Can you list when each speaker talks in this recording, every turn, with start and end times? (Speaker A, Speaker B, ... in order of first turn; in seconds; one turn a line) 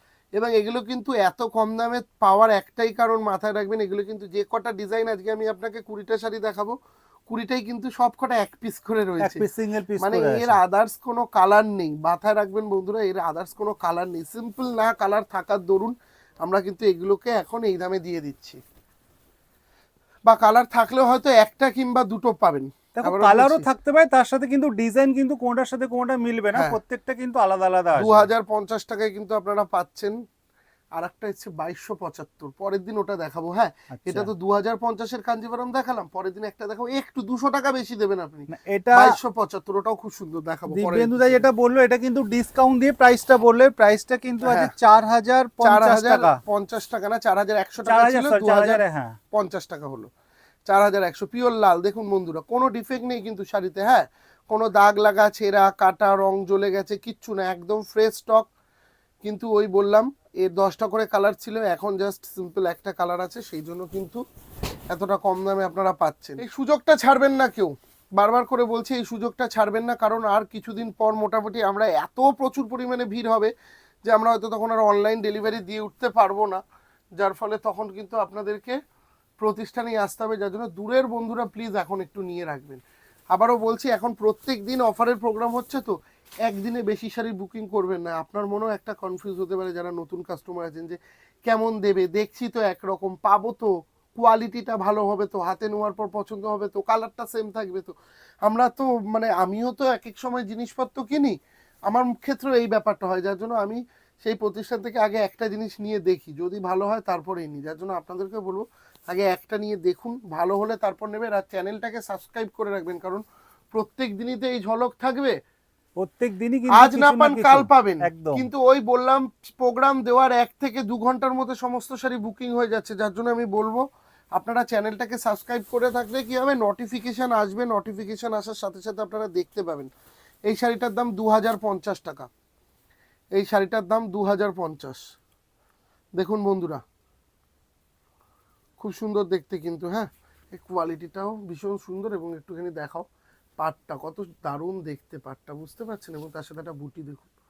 Speaker A: 0.3-6.7
Speaker A: 7.3-9.4
Speaker B: 9.2-10.6
Speaker A: 10.0-18.6
Speaker A: 20.2-23.6
Speaker B: 22.9-28.3
Speaker A: 27.9-30.1
Speaker A: 30.9-41.4
Speaker B: 33.9-34.3
Speaker B: 38.5-39.2
Speaker B: 40.7-46.4
Speaker A: 44.4-44.7
Speaker A: 45.6-48.8
Speaker B: 47.8-49.2
Speaker A: 49.3-50.1
Speaker A: 50.7-58.5
Speaker A: 59.2-64.2
Speaker A: 64.9-73.5
Speaker A: 74.0-76.6
Speaker A: 77.2-78.8
Speaker A: 79.4-82.8
Speaker A: 83.3-85.9
Speaker A: 86.5-101.4
Speaker A: 101.9-113.2
Speaker A: 113.7-115.3
Speaker B: 116.0-118.5
Speaker A: 116.7-123.8
Speaker A: 124.3-129.9
Speaker A: 130.5-132.3
Speaker A: 133.3-135.0
Speaker A: 136.2-136.8
Speaker A: 138.8-143.0
Speaker A: 143.6-147.3